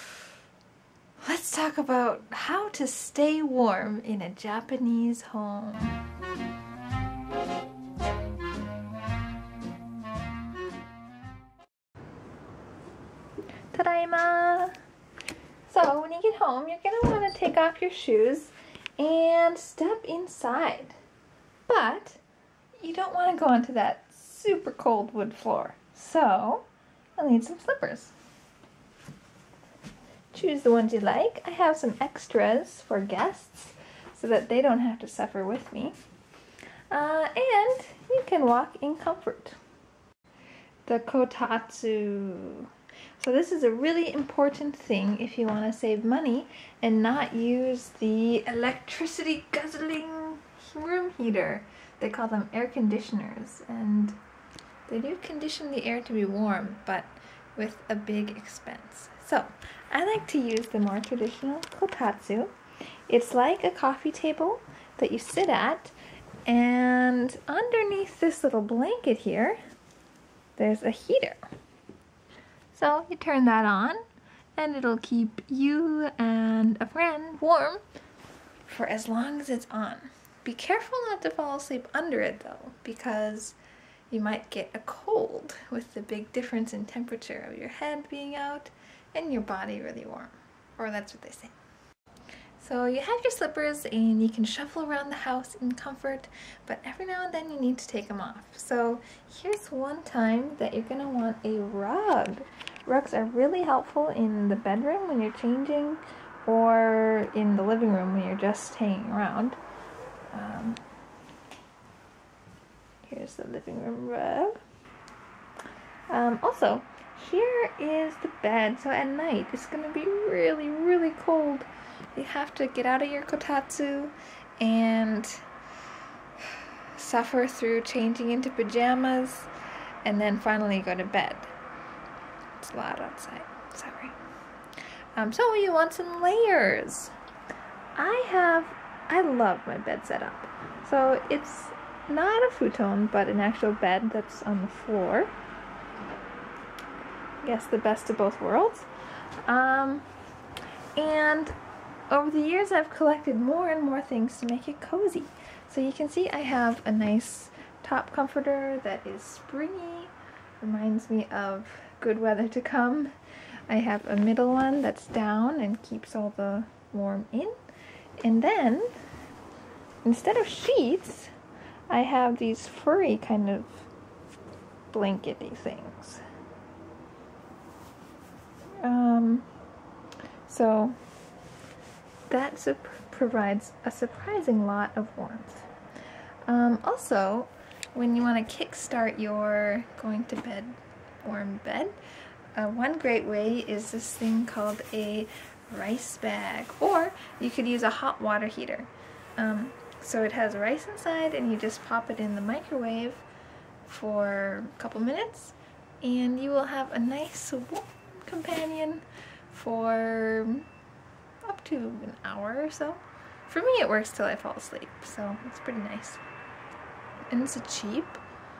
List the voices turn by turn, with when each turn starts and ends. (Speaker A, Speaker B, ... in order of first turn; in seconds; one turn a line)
Speaker A: 1.2-6.0
Speaker A: 13.7-14.8
Speaker A: 15.7-21.0
Speaker A: 21.7-22.2
Speaker A: 22.8-26.7
Speaker A: 27.2-28.1
Speaker A: 30.3-36.0
Speaker A: 36.9-39.6
Speaker A: 40.9-54.2
Speaker A: 54.9-62.5
Speaker A: 63.1-65.9
Speaker A: 66.5-69.6
Speaker A: 70.6-71.4
Speaker A: 72.7-74.0
Speaker A: 74.6-77.8
Speaker A: 78.7-83.6
Speaker A: 84.1-91.5
Speaker A: 92.6-109.6
Speaker A: 110.3-110.8
Speaker A: 113.0-114.6
Speaker A: 116.1-125.4
Speaker A: 126.4-129.5
Speaker A: 130.0-131.5
Speaker A: 132.6-134.2
Speaker A: 135.2-137.1
Speaker A: 137.9-145.3
Speaker A: 147.4-148.9
Speaker A: 149.4-150.1
Speaker A: 150.9-151.5
Speaker A: 152.1-163.1
Speaker A: 163.7-167.6
Speaker A: 168.2-168.9
Speaker A: 170.0-171.3
Speaker A: 171.9-173.9
Speaker A: 174.9-176.2
Speaker A: 178.8-179.5
Speaker A: 180.4-181.0
Speaker A: 182.3-185.7
Speaker A: 186.4-192.0
Speaker A: 192.5-203.2
Speaker A: 203.8-210.7
Speaker A: 211.4-216.2
Speaker A: 217.3-218.2